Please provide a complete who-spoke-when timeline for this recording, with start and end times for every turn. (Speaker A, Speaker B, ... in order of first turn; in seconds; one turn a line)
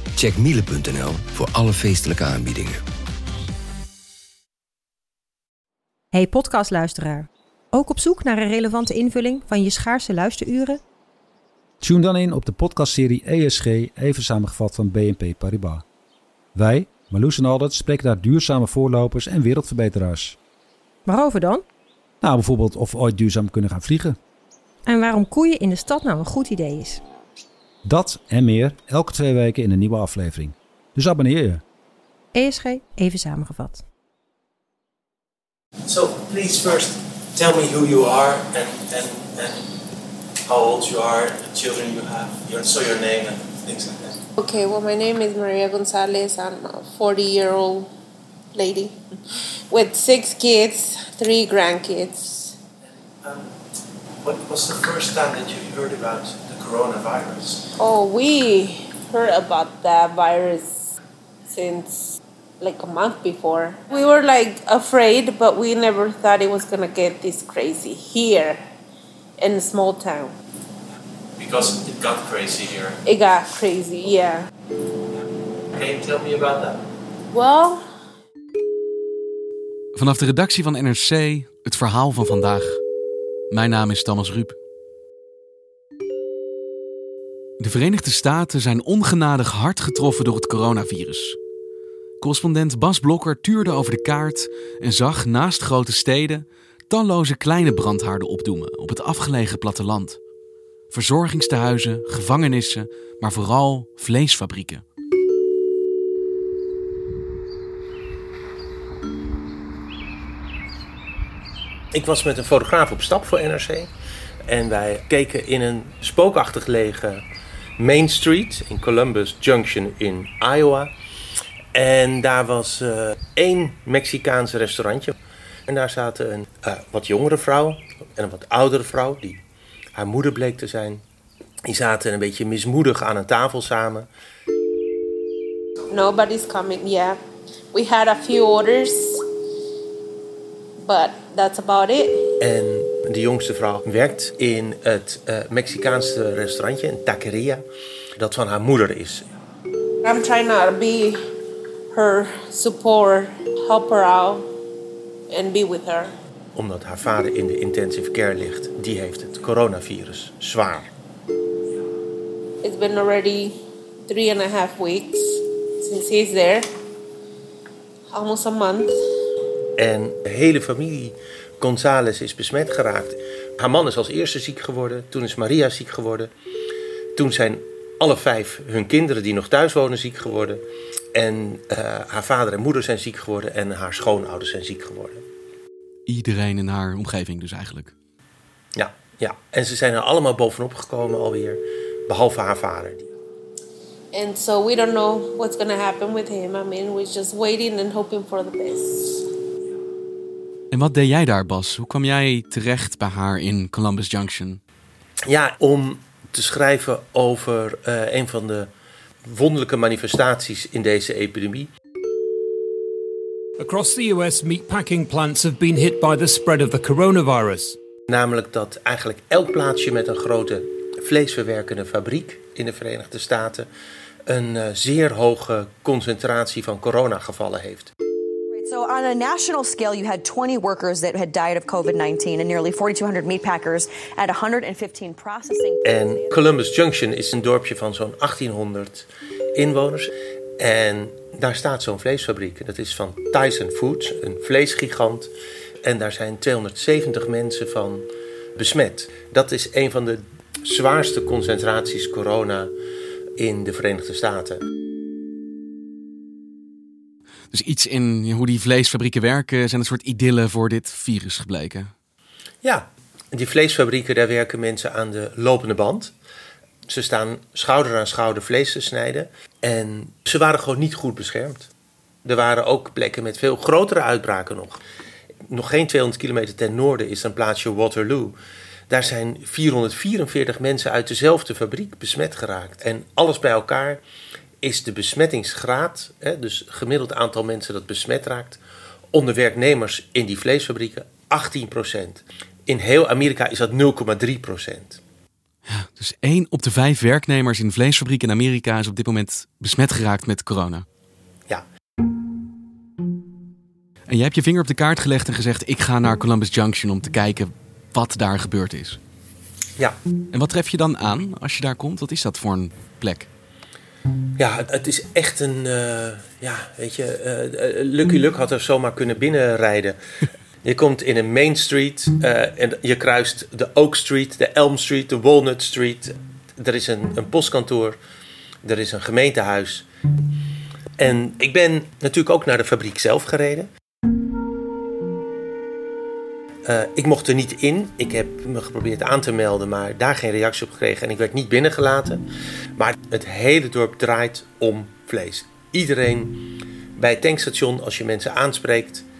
Speaker A: 0.1-2.8
Speaker B: 6.1-10.8
Speaker C: 11.8-15.8
Speaker C: 16.5-20.4
Speaker B: 21.1-21.6
Speaker C: 22.2-24.2
Speaker B: 24.9-27.0
Speaker C: 27.8-31.6
Speaker B: 32.3-33.8
Speaker D: 35.9-39.6
Speaker D: 40.5-44.2
Speaker E: 44.4-47.9
Speaker E: 48.5-48.9
Speaker E: 49.7-52.5
Speaker D: 54.2-57.7
Speaker E: 57.8-60.9
Speaker E: 61.5-68.6
Speaker E: 69.4-70.3
Speaker D: 71.4-72.9
Speaker E: 73.0-74.4
Speaker D: 75.7-76.7
Speaker E: 77.3-77.8
Speaker F: 79.9-82.8
Speaker F: 83.5-84.5
Speaker F: 87.6-91.4
Speaker F: 92.2-100.2
Speaker F: 100.9-104.8
Speaker D: 111.9-113.9
Speaker D: 114.5-117.2
Speaker D: 117.8-120.9
Speaker D: 121.7-125.1
Speaker D: 125.7-129.4
Speaker D: 129.9-131.0
Speaker D: 131.6-134.1
Speaker E: 135.9-137.2
Speaker E: 137.7-139.2
Speaker E: 140.8-142.2
Speaker D: 142.4-147.6
Speaker D: 148.2-149.2
Speaker E: 150.0-151.2
Speaker E: 151.9-154.4
Speaker E: 155.3-156.1
Speaker D: 156.5-160.9
Speaker E: 162.6-163.5
Speaker E: 164.1-166.6
Speaker E: 168.1-168.9
Speaker D: 169.8-176.3
Speaker D: 177.2-180.6
Speaker D: 181.1-185.2
Speaker F: 186.1-187.9
Speaker D: 188.8-193.1
Speaker E: 194.1-199.2
Speaker F: 200.7-204.6
Speaker D: 205.3-208.7
Speaker D: 209.2-211.7
Speaker G: 213.6-217.8
Speaker D: 218.1-223.7
Speaker D: 224.3-227.9
Speaker H: 228.5-236.4
Speaker D: 235.8-245.3
Speaker D: 245.8-252.7
Speaker D: 253.4-254.6
Speaker F: 257.5-261.9
Speaker D: 262.6-266.1
Speaker D: 266.9-271.7
Speaker D: 272.2-274.8
Speaker D: 275.5-278.4
Speaker D: 278.9-284.0
Speaker D: 284.6-288.6
Speaker D: 289.1-295.0
Speaker F: 295.6-300.8
Speaker F: 304.1-309.0
Speaker F: 310.3-313.3
Speaker D: 314.4-320.0
Speaker D: 320.6-328.0
Speaker D: 328.6-329.9
Speaker D: 331.0-333.7
Speaker D: 336.6-342.2
Speaker D: 342.8-346.4
Speaker D: 347.0-349.1